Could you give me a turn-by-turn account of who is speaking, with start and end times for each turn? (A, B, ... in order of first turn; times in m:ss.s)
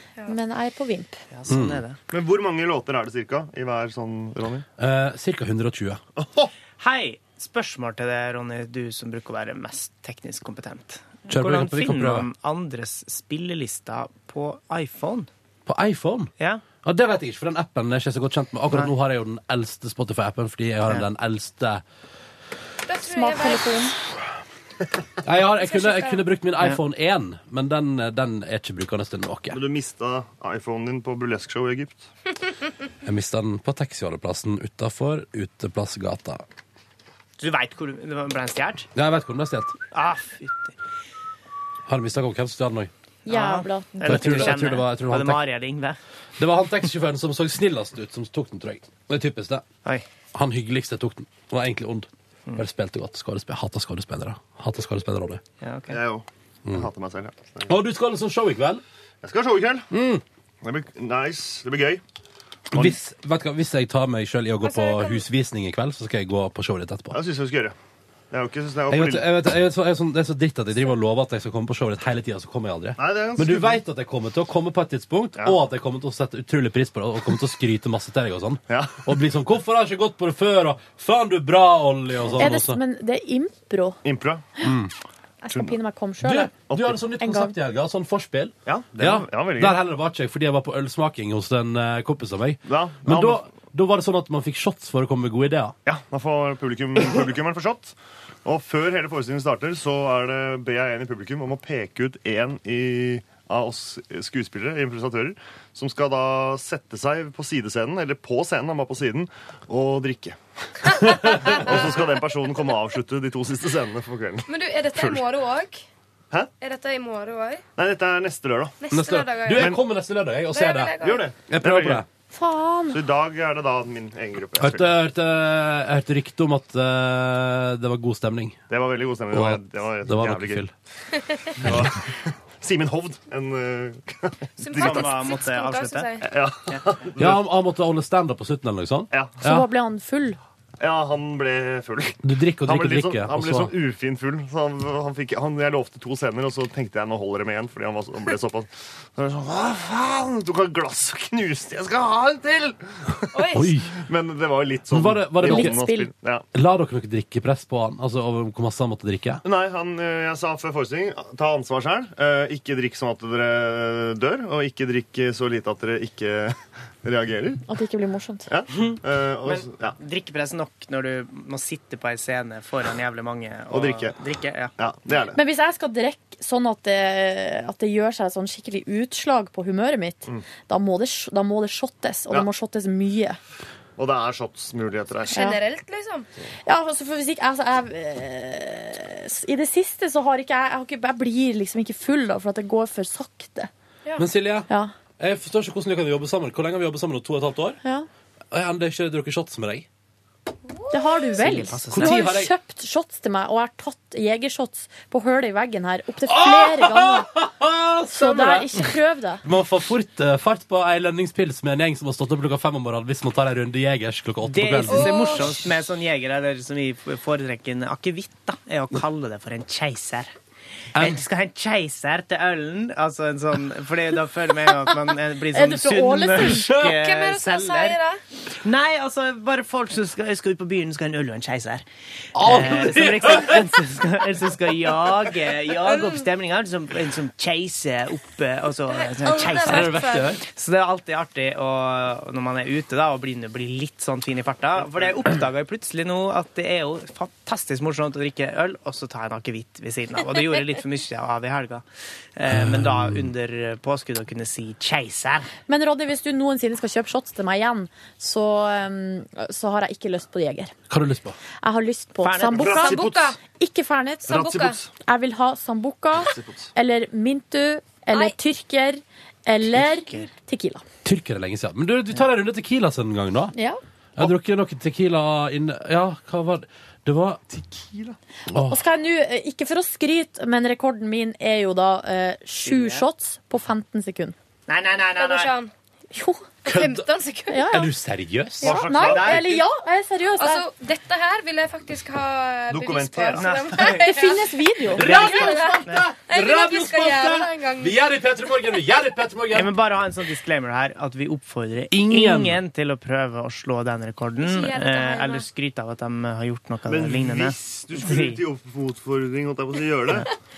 0:00.3-0:01.2 A
0:01.3-0:02.0 B
0:01.5-0:01.8 C
0:02.1-0:04.6 D
0:04.8-0:06.0 C
0:06.2-0:06.5 D
0:06.8-0:15.3 B
0:11.3-0:12.3 C
0:15.7-0:16.3 C
0:16.8-0:21.8 C
0:22.9-0:23.9 E
0:23.1-0:23.9 A
0:25.2-0:29.6 C
0:25.5-0:26.2 E
0:29.5-0:32.1 D
0:33.0-0:36.4 C
0:37.4-0:38.9 B
0:39.0-0:39.7 C
0:39.9-0:40.8 B
0:41.9-0:42.9 C
0:43.3-0:44.5 A
0:43.3-0:46.0 B
0:44.0-0:45.4 C
0:46.4-0:49.6 C
0:50.3-0:55.4 C
0:55.6-0:56.0 B
0:55.9-0:57.8 D
0:57.7-0:58.8 C
0:59.2-0:59.9 D
0:59.9-1:00.2 C
1:00.6-1:02.0 D
1:02.7-1:03.0 D
1:02.7-1:07.2 C
1:04.6-1:05.2 E
1:07.1-1:07.8 D
1:08.3-1:09.3 D
1:08.9-1:22.8 C
1:13.0-1:13.8 D
1:18.7-1:19.2 D
1:22.4-1:24.0 A
1:24.0-1:24.5 D
1:24.6-1:24.9 C
1:25.4-1:26.5 A
1:26.2-1:35.8 C
1:26.7-1:27.0 D
1:27.2-1:27.5 A
1:28.7-1:29.8 D
1:32.6-1:33.4 D
1:35.9-1:55.2 D
1:51.5-1:51.8 E
1:54.5-1:55.8 E
1:56.6-1:57.6 E
1:57.8-1:58.8 D
1:58.8-1:59.7 E
1:58.9-2:02.1 C
1:59.5-1:59.8 D
2:00.5-2:01.3 E
2:01.5-2:02.0 D
2:02.3-2:03.0 A
2:02.9-2:05.0 D
2:04.6-2:08.6 C
2:08.7-2:10.7 D
2:09.3-2:10.7 C
2:11.6-2:15.2 D
2:14.6-2:16.2 E
2:14.7-2:16.2 B
2:16.2-2:17.4 D
2:17.2-2:19.7 C
2:19.1-2:19.4 D
2:19.4-2:20.4 A
2:20.8-2:36.5 D
2:22.2-2:23.7 C
2:33.3-2:33.7 E
2:33.5-2:33.9 C
2:34.9-2:35.8 C
2:35.4-2:36.1 A
2:36.5-2:39.4 C
2:39.4-2:47.6 D
2:47.7-2:48.5 A
2:48.5-2:50.0 D
2:49.4-2:54.7 B
2:53.7-2:54.2 D
2:54.8-2:55.4 D
2:55.3-3:03.4 A
3:04.0-3:05.4 D
3:05.3-3:06.3 E
3:05.3-3:05.6 A
3:06.6-3:13.7 A
3:14.2-3:14.7 C
3:15.2-3:17.8 C
3:18.5-3:19.9 C
3:20.9-3:27.3 A
3:21.4-3:22.2 B
3:21.9-3:22.5 C
3:26.3-3:35.5 C
3:28.1-3:29.4 A
3:34.4-3:40.3 B
3:34.9-3:35.5 E
3:41.0-3:41.2 C
3:41.0-3:48.0 B
3:45.5-3:46.7 A
3:46.4-3:46.9 C
3:46.8-3:48.2 E
3:48.6-3:51.8 B
3:52.4-3:53.7 C
3:52.4-4:11.8 B
3:55.9-3:56.2 E
3:58.9-4:00.4 E
3:59.6-4:00.4 C
4:12.4-4:15.5 B
4:12.5-4:13.3 C
4:15.7-4:20.7 A
4:20.9-4:21.4 C
4:21.6-4:24.5 A
4:22.2-4:22.8 B
4:22.6-4:23.3 D
4:22.8-4:23.4 E
4:24.3-4:24.8 E
4:24.3-4:24.9 D
4:25.0-4:30.8 A
4:26.2-4:26.7 D
4:29.7-4:30.3 B
4:31.0-4:33.5 C
4:33.6-4:33.8 A
4:34.2-4:37.8 C
4:38.5-4:38.8 C
4:38.5-4:44.4 A
4:42.6-4:43.0 B
4:44.7-4:45.5 B
4:45.2-4:45.7 E
4:46.1-4:46.4 A
4:46.6-4:47.9 E
4:46.7-4:47.1 C
4:47.5-4:47.9 A
4:47.7-4:48.7 C
4:48.6-4:49.6 D
4:48.6-4:50.7 A
4:48.9-4:49.7 B
4:50.4-4:54.5 E
4:52.7-4:53.6 D
4:53.3-4:54.2 B
4:53.8-4:55.1 A
4:54.9-4:59.8 C
4:54.9-4:56.0 B
4:55.0-4:58.0 E
4:59.5-5:08.4 B
5:01.9-5:02.6 C
5:04.4-5:05.5 E
5:06.9-5:10.3 D